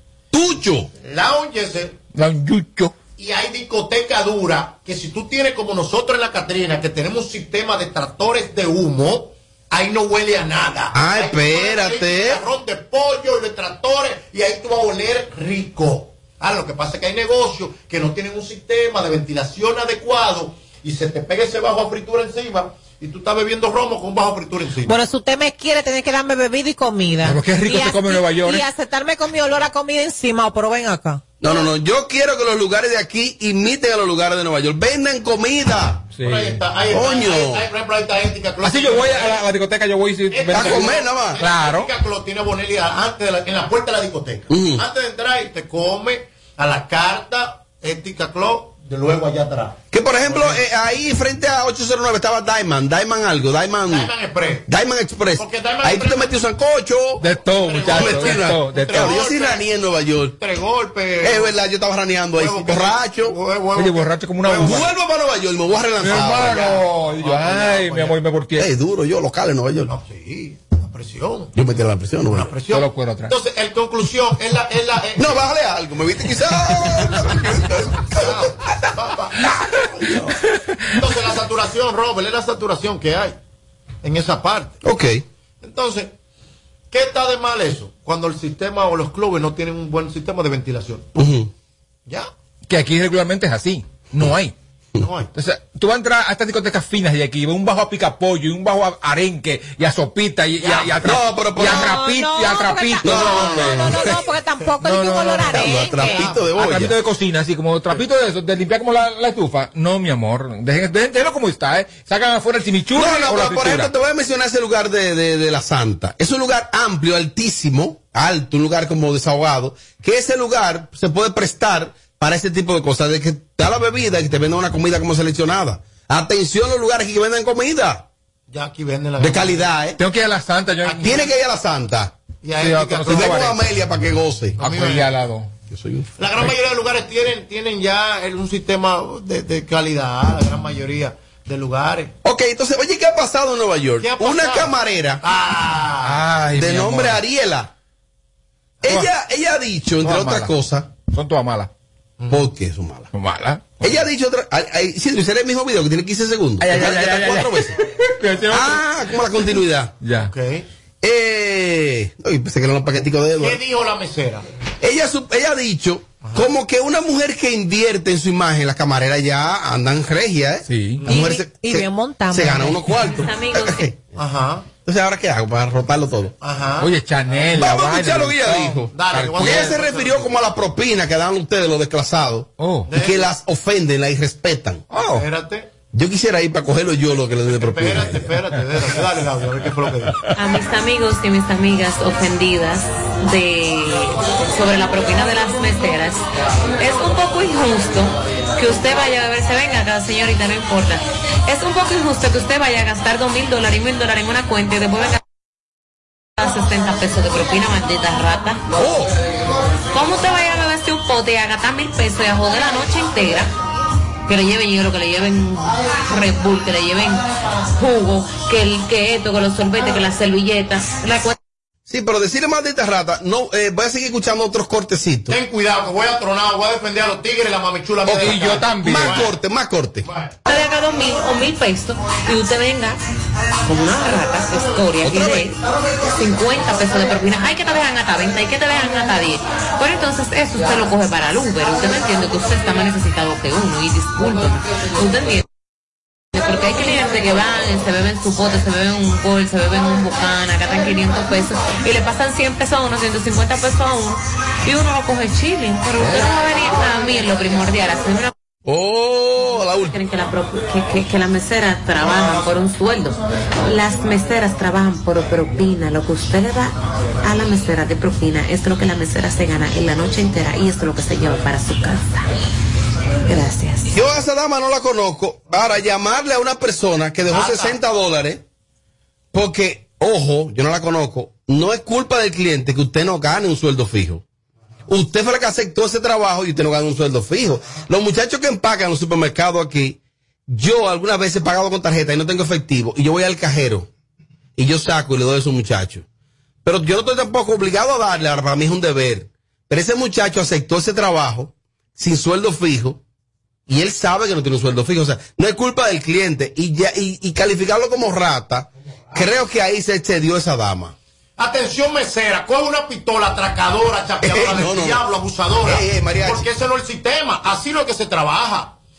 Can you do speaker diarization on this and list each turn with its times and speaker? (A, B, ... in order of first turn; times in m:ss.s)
0:00.3-0:00.9 A
0:01.0-0:02.0 B
0:02.1-0:02.9 C
0:03.2-0:24.9 B
0:10.9-0:12.4 A
0:24.9-0:31.2 D
0:27.2-0:28.6 C
0:31.4-0:36.0 A
0:36.2-0:36.6 C
0:36.2-0:39.4 B
0:36.9-0:37.6 A
0:38.6-0:41.9 C
0:40.3-0:50.6 B
0:40.5-0:41.4 A
0:44.5-0:44.8 A
0:49.9-0:54.1 A
0:53.9-0:54.6 B
0:54.7-0:57.2 A
0:55.4-0:56.3 B
0:57.2-0:59.2 C
0:57.6-0:59.6 B
0:57.9-1:00.4 A
1:00.4-1:01.5 B
1:01.2-1:03.4 A
1:02.4-1:04.9 B
1:03.8-1:04.9 C
1:04.5-1:06.7 A
1:06.0-1:08.7 C
1:06.2-1:08.2 B
1:08.6-1:09.9 A
1:09.9-1:11.5 B
1:11.5-1:12.5 A
1:12.3-1:15.3 B
1:12.7-1:13.3 C
1:15.2-1:18.5 A
1:18.1-1:19.5 B
1:20.9-1:23.4 B
1:24.0-1:24.8 B
1:24.8-1:25.2 A
1:25.6-1:26.1 B
1:26.9-1:31.2 B
1:31.1-1:31.5 A
1:32.7-1:34.5 C
1:35.0-1:35.3 B
1:35.3-1:44.1 C
1:40.6-1:41.0 B
1:41.0-1:41.9 A
1:41.6-1:46.3 D
1:43.0-1:44.2 A
1:44.8-1:45.8 C
1:45.5-1:46.9 A
1:46.0-1:46.5 B
1:46.6-1:53.9 C
1:52.9-2:08.0 A
2:08.5-2:09.7 B
2:09.2-2:10.0 A
2:10.0-2:11.2 C
2:10.8-2:11.3 B
2:10.9-2:12.1 A
2:12.4-2:13.5 B
2:12.6-2:13.6 C
2:13.1-2:14.6 A
2:14.6-2:15.1 B
2:14.6-2:15.5 C
2:15.7-2:16.1 A
2:16.2-2:22.1 B
2:22.2-2:25.2 A
2:24.0-2:26.2 B
2:26.0-2:27.2 C
2:26.5-2:27.7 A
2:28.8-2:30.9 A
2:30.0-2:30.5 C
2:31.1-2:31.7 C
2:32.3-2:33.1 A
2:33.1-2:34.0 C
2:33.8-2:37.7 A
2:36.6-2:38.8 C
2:38.5-2:39.9 A
2:40.0-2:40.3 C
2:40.2-2:40.6 B
2:41.0-2:43.6 A
2:43.4-2:44.4 B
2:44.8-2:54.0 A
2:46.2-2:46.5 B
2:50.7-2:51.0 C
2:51.0-2:51.3 B
2:51.1-2:52.9 D
2:53.0-2:53.9 E
2:54.2-2:54.7 B
2:54.8-2:56.3 A
2:56.4-2:57.6 B
2:56.8-2:59.8 C
2:57.6-3:04.8 A
2:58.9-3:00.3 B
3:02.6-3:02.9 C
3:02.9-3:03.2 B
3:04.9-3:05.2 C
3:05.1-3:05.7 B
3:05.9-3:08.4 A
3:07.6-3:10.1 B
3:10.4-3:16.2 E
3:16.8-3:25.2 E
3:26.4-3:28.6 E
3:28.8-3:29.1 A
3:29.9-3:33.5 E
3:34.2-3:41.4 E
3:41.9-3:45.4 A
3:45.3-3:49.3 B
3:48.0-3:49.2 C
3:48.8-3:50.0 A
3:50.0-3:50.3 B
3:50.4-3:53.0 E
3:53.6-4:05.4 E
3:55.0-3:55.5 A
4:06.3-4:18.3 E
4:16.0-4:16.3 A
4:18.6-4:20.0 A
4:19.8-4:32.3 E
4:33.2-4:34.0 E
4:33.9-4:38.4 A
4:37.3-4:37.8 B
4:39.3-4:44.2 A
4:44.9-4:53.9 A
4:54.6-4:56.0 A
4:56.6-5:03.0 A
5:03.7-5:10.9 A
5:11.4-5:18.8 B
5:14.2-5:15.0 A
5:15.6-5:16.4 A